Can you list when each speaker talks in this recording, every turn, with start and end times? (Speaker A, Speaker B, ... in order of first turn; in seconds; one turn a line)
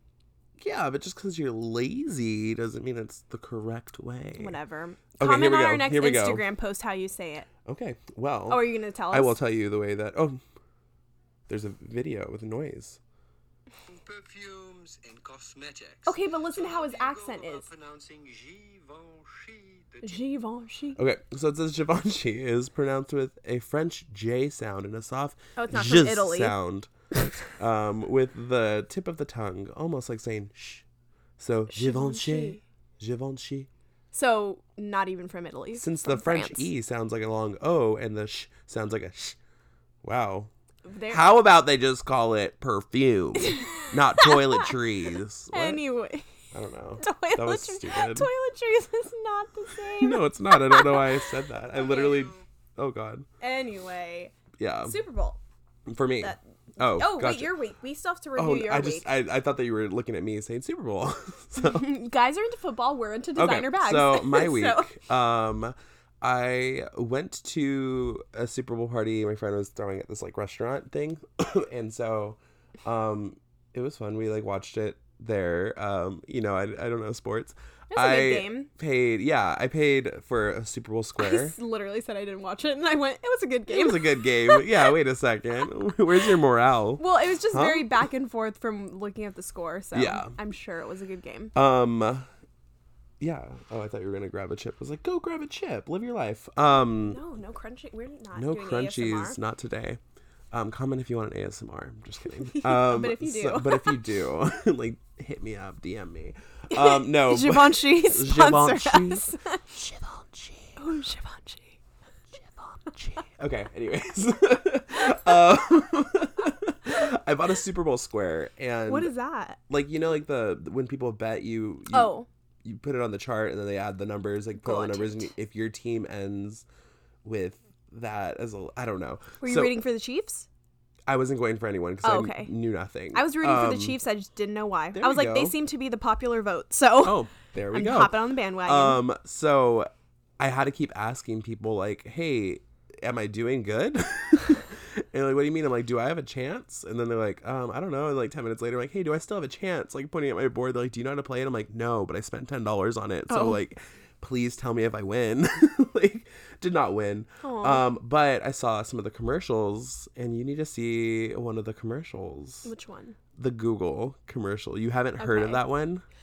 Speaker A: 0.6-4.5
Speaker B: 4.4-7.5
Speaker A: 5.2-6.4
Speaker A: 7.7-10.4
Speaker B: 8.5-9.3
Speaker A: 11.5-13.0
Speaker C: 13.9-20.2
Speaker B: 16.1-17.7
Speaker B: 20.0-21.0
Speaker A: 21.0-26.9
Speaker B: 25.6-26.5
Speaker A: 27.4-30.8
Speaker A: 31.4-33.7
Speaker B: 31.7-32.6
Speaker B: 34.1-36.7
Speaker A: 35.7-39.4
Speaker A: 40.0-40.5
Speaker B: 40.9-41.2
Speaker A: 41.1-45.8
Speaker B: 43.4-44.7
Speaker B: 45.5-46.3
Speaker A: 46.5-48.3
Speaker B: 47.0-51.1
Speaker A: 49.8-53.2
Speaker B: 51.8-52.1
Speaker B: 53.4-55.4
Speaker A: 54.6-55.0
Speaker A: 55.9-57.5
Speaker B: 56.2-59.1
Speaker A: 58.4-61.9
Speaker B: 61.6-64.9
Speaker A: 63.4-81.5
Speaker B: 77.9-78.7
Speaker B: 81.2-84.9
Speaker A: 83.7-87.9
Speaker B: 87.0-91.5
Speaker A: 89.9-90.3
Speaker A: 91.5-92.2
Speaker A: 93.2-97.2
Speaker B: 97.0-99.4
Speaker A: 98.3-100.0
Speaker A: 100.5-110.8
Speaker B: 102.5-104.0
Speaker B: 106.7-109.6
Speaker B: 110.8-111.8
Speaker A: 113.0-119.1
Speaker B: 118.9-119.6
Speaker A: 119.7-126.6
Speaker B: 121.9-122.3
Speaker B: 124.6-125.3
Speaker A: 127.2-129.7
Speaker B: 129.4-130.5
Speaker A: 131.1-133.9
Speaker B: 132.0-132.5
Speaker B: 133.1-139.0
Speaker A: 134.9-135.5
Speaker A: 137.0-162.7
Speaker B: 153.3-153.6
Speaker B: 157.4-157.8
Speaker B: 162.6-163.2
Speaker A: 163.4-166.0
Speaker B: 165.2-165.6